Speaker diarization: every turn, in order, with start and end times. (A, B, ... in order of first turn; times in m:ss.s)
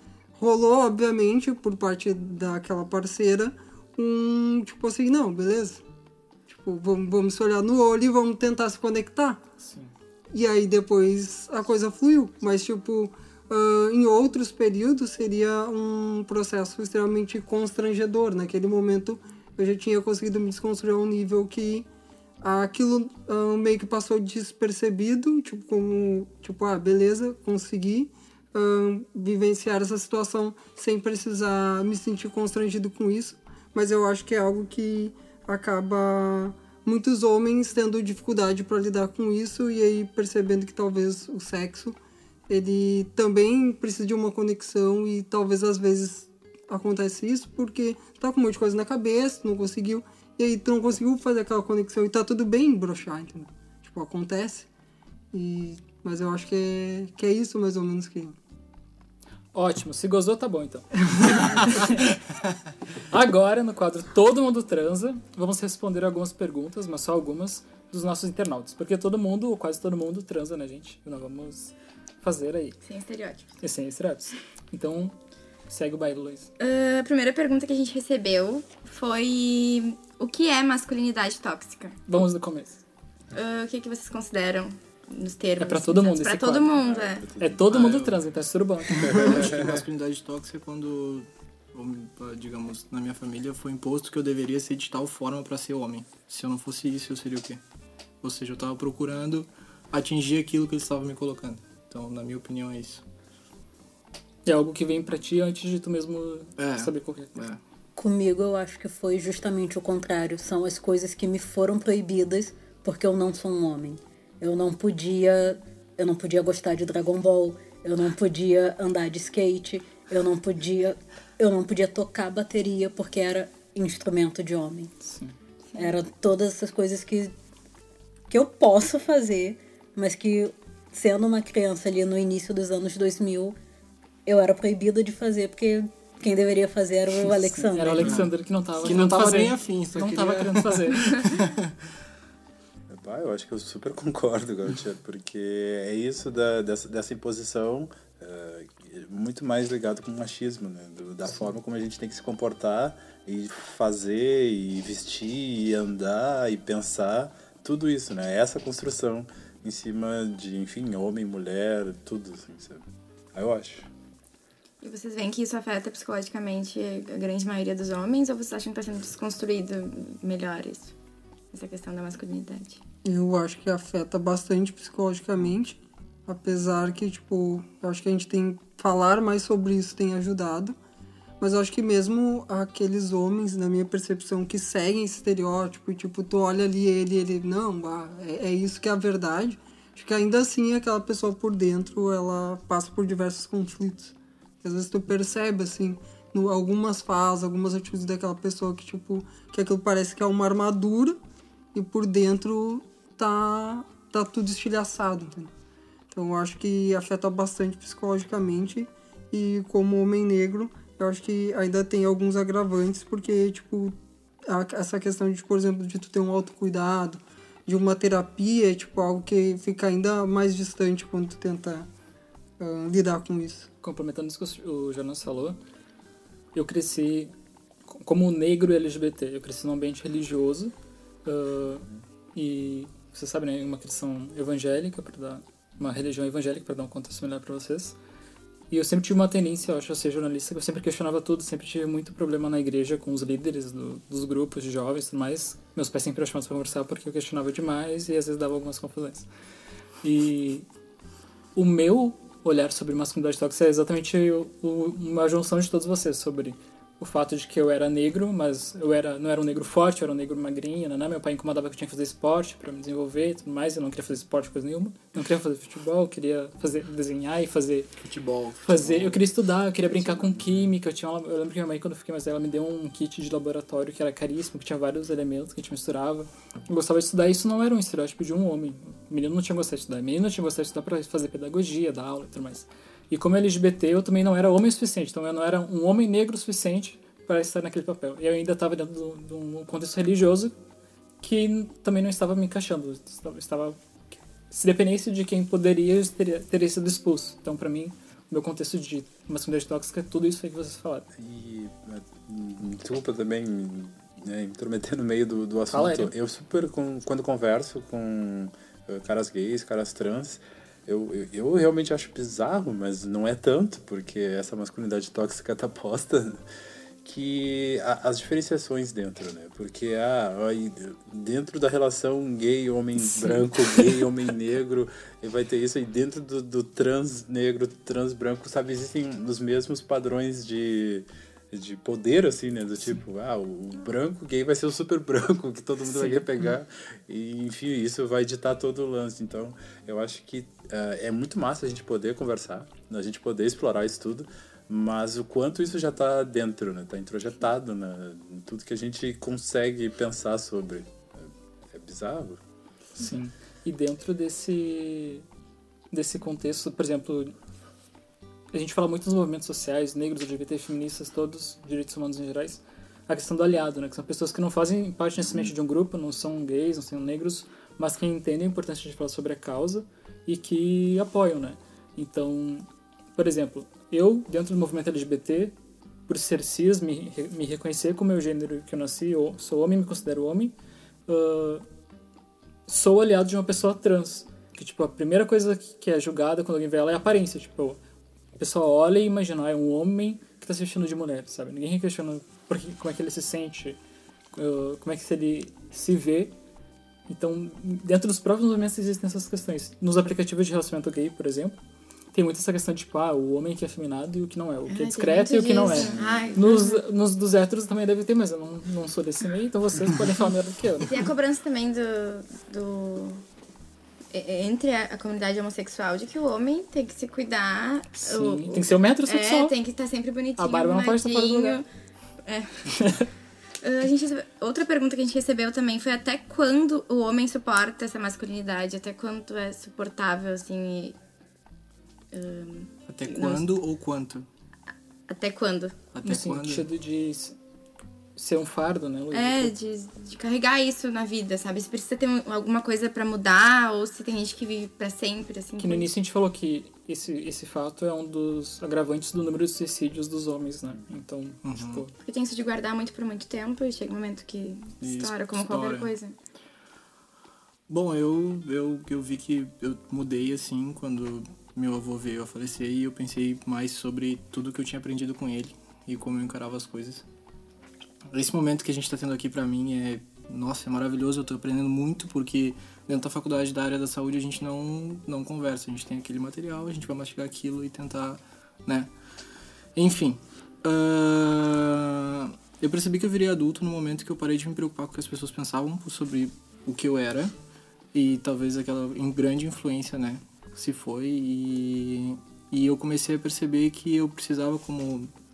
0:00.4-0:05.8 A
0:06.5-0:09.4 A
0:09.6-0:09.9 B
0:10.3-0:21.9 A
0:22.4-0:42.0 A
0:42.5-0:54.7 A
0:55.3-0:58.4 A
0:59.5-1:02.0 B
1:03.1-1:12.8 B
1:12.8-1:13.6 C
1:13.6-1:15.2 B
1:15.7-1:16.5 B
1:16.6-1:22.0 C
1:22.1-1:22.8 B
1:23.3-1:27.3 C
1:25.6-1:26.7 B
1:26.7-1:27.6 D
1:27.4-1:29.6 B
1:27.7-1:28.2 E
1:29.0-1:29.8 D
1:29.0-1:37.6 E
1:38.2-1:43.0 E
1:44.5-1:47.5 B
1:46.6-1:47.6 E
1:48.0-2:04.9 F
2:05.0-2:05.3 B
2:05.8-2:07.3 F
2:08.3-2:13.6 F
2:14.3-2:18.3 F
2:17.7-2:21.3 B
2:18.0-2:21.7 E
2:22.9-2:43.9 D
2:44.8-2:50.9 C
2:51.5-2:52.8 C
2:53.0-3:00.8 A
3:01.4-3:21.2 A
3:21.7-3:25.5 A
3:26.1-3:34.0 A
3:34.5-3:41.9 A
3:42.6-3:43.7 A
3:43.8-3:45.6 B
3:46.5-3:47.3 B
3:47.9-3:50.7 B
3:51.2-3:58.0 B
3:58.7-4:09.3 B
4:10.0-4:10.7 B
4:11.6-4:27.9 B
4:28.0-4:29.2 E
4:28.7-4:50.5 B
4:30.2-4:30.6 D
4:51.2-4:53.8 B
4:54.5-5:01.1 B
5:01.2-5:16.4 D
5:05.7-5:06.1 B
5:17.0-5:52.4 D
5:23.0-5:23.8 B
5:35.9-5:36.3 B
5:53.0-5:55.2 B
5:55.9-5:57.3 B
5:58.5-6:15.5 B
6:16.1-6:20.5 B
6:21.1-6:21.6 B
6:22.7-6:27.8 B
6:28.4-6:33.8 B
6:34.3-6:36.3 B
6:37.1-6:41.6 B
6:42.1-6:50.9 B
6:44.7-6:46.8 C
6:45.9-6:46.4 D
6:50.8-6:53.2 C
6:54.1-7:01.7 C
6:58.0-6:59.5 B
7:00.4-7:01.6 B
7:02.2-7:02.7 C
7:02.7-7:03.1 B
7:03.6-7:11.0 C
7:12.1-7:13.5 C
7:12.9-7:14.3 E
7:15.1-7:15.8 C
7:15.9-7:16.7 E
7:16.0-7:17.4 B
7:18.2-7:19.5 B
7:19.1-7:25.9 C
7:25.6-7:31.9 B
7:31.4-7:31.8 E
7:32.0-7:36.2 C
7:34.8-7:35.9 E
7:37.7-7:47.0 E
7:48.1-7:58.9 E
7:59.8-8:07.3 E
8:07.9-8:15.1 E